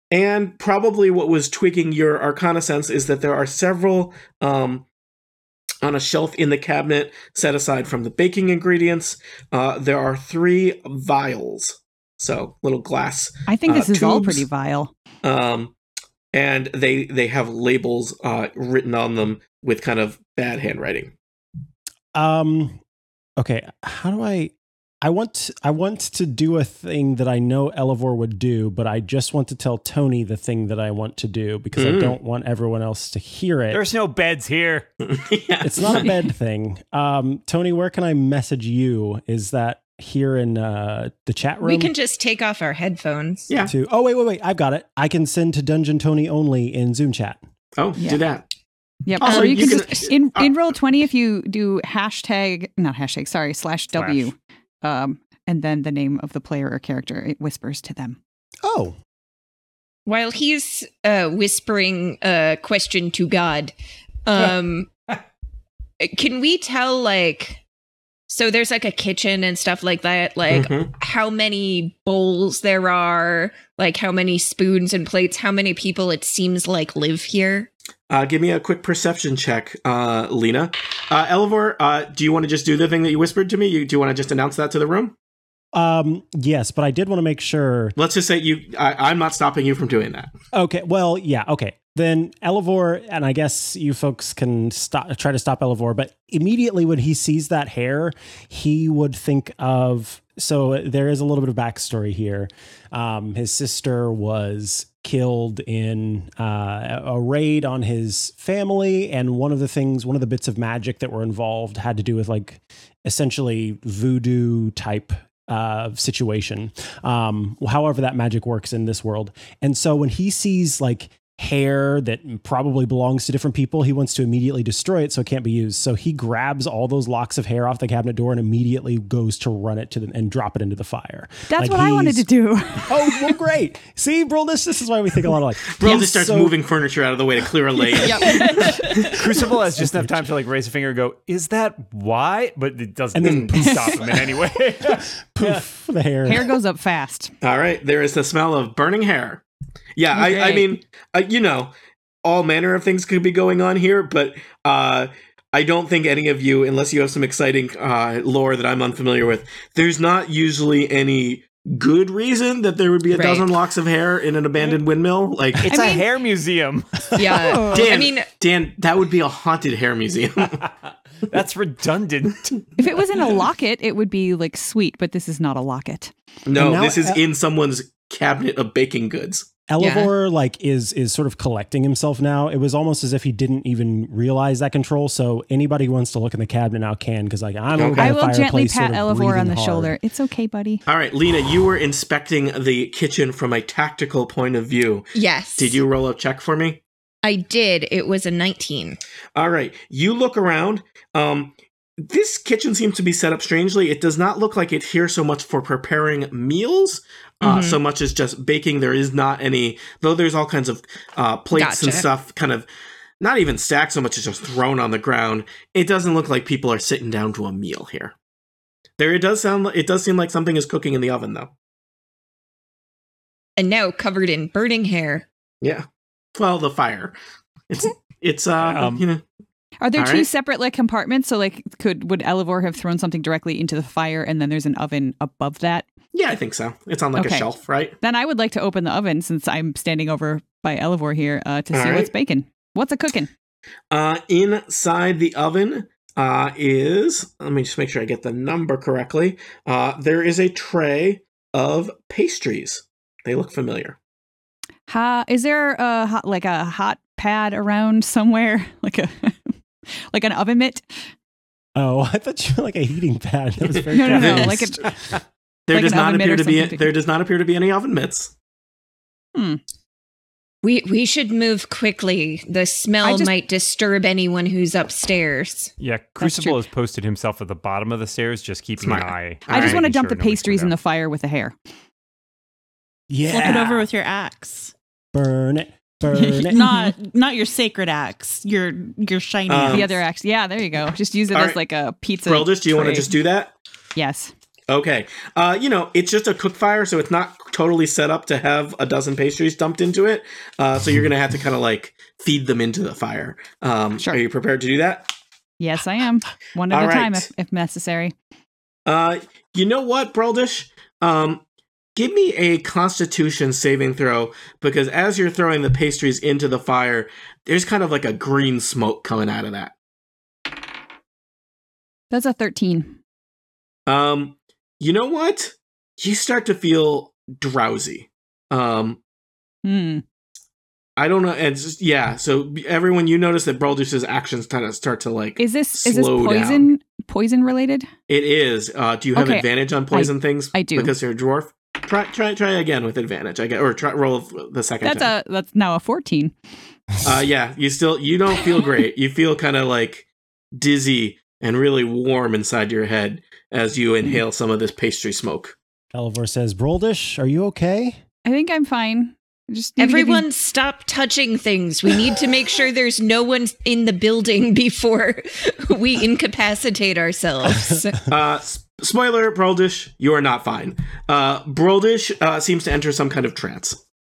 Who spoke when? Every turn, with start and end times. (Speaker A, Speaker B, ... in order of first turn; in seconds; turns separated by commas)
Speaker A: 0.1-4.8, Speaker A: 5.8-14.5, Speaker B: 13.5-14.9, Speaker A: 15.2-15.7, Speaker A: 16.3-21.1, Speaker C: 22.1-22.8, Speaker C: 23.4-33.8, Speaker A: 31.8-32.2, Speaker D: 33.7-34.9, Speaker A: 35.0-36.1, Speaker C: 35.6-41.9, Speaker E: 41.6-43.5, Speaker C: 43.6-47.4, Speaker A: 47.8-48.4, Speaker B: 48.0-48.2, Speaker B: 49.0-58.2, Speaker A: 49.2-50.5, Speaker E: 49.2-49.9, Speaker D: 53.9-54.3, Speaker C: 58.6-59.0, Speaker E: 60.0-63.7, Speaker E: 64.2-64.9, Speaker E: 66.0-67.6, Speaker E: 68.3-77.7, Speaker A: 70.5-70.9, Speaker A: 78.1-85.1, Speaker C: 85.7-87.9, Speaker A: 88.0-90.3, Speaker C: 90.5-132.2, Speaker B: 131.5-133.3, Speaker C: 132.9-136.5, Speaker A: 135.7-139.2, Speaker B: 138.0-138.8, Speaker D: 139.1-145.6, Speaker C: 139.8-140.2, Speaker C: 143.1-146.5, Speaker B: 146.2-147.3, Speaker A: 147.4-149.4, Speaker A: 149.9-151.7, Speaker B: 150.1-150.6, Speaker A: 152.2-165.8, Speaker E: 163.1-163.5, Speaker D: 165.6-167.4, Speaker B: 165.7-166.0, Speaker E: 167.2-168.3, Speaker B: 167.2-167.9, Speaker A: 167.7-170.6, Speaker D: 170.6-172.6, Speaker B: 172.8-176.1, Speaker A: 176.4-179.6, Speaker C: 176.5-177.2, Speaker C: 179.7-189.9, Speaker E: 179.8-180.1, Speaker A: 187.7-188.2, Speaker B: 188.0-190.8, Speaker A: 190.8-196.8, Speaker E: 195.1-195.8, Speaker E: 197.2-199.0, Speaker A: 199.3-212.7, Speaker E: 207.4-207.8, Speaker E: 211.5-212.1, Speaker A: 213.2-218.1, Speaker A: 219.0-221.5, Speaker E: 223.6-225.2, Speaker A: 225.6-227.2, Speaker A: 227.7-229.2, Speaker D: 228.6-229.0, Speaker B: 229.8-235.8, Speaker A: 229.9-230.3, Speaker A: 236.1-237.9, Speaker B: 237.1-237.5, Speaker B: 238.0-243.3, Speaker A: 241.7-242.1, Speaker A: 243.9-254.0, Speaker B: 254.9-259.5, Speaker B: 260.1-260.9, Speaker C: 261.8-264.9, Speaker B: 263.9-264.8, Speaker A: 264.1-264.6, Speaker A: 265.7-268.3, Speaker B: 265.7-266.9, Speaker B: 269.3-269.6, Speaker E: 270.6-275.7, Speaker B: 273.0-273.3, Speaker D: 275.8-280.8, Speaker B: 276.2-276.6, Speaker A: 278.8-279.8, Speaker B: 279.5-281.5, Speaker C: 283.1-283.9, Speaker F: 283.3-284.7, Speaker C: 285.1-286.6, Speaker F: 286.1-290.0, Speaker B: 286.5-286.9, Speaker A: 289.5-289.9, Speaker B: 289.6-293.1, Speaker A: 291.3-291.6, Speaker A: 292.2-293.5, Speaker B: 293.9-294.3, Speaker A: 294.7-305.1, Speaker B: 305.6-308.1, Speaker A: 306.7-307.3, Speaker A: 308.9-311.4, Speaker A: 311.9-319.7, Speaker B: 322.1-322.9, Speaker A: 323.9-329.0, Speaker B: 329.6-330.0, Speaker A: 331.0-336.7, Speaker B: 335.4-337.9, Speaker A: 338.1-345.1, Speaker B: 339.1-340.9, Speaker B: 344.8-346.3, Speaker A: 347.0-355.5, Speaker C: 355.9-358.0, Speaker B: 358.2-360.2, Speaker E: 359.8-368.0, Speaker C: 367.4-367.9, Speaker A: 368.1-373.8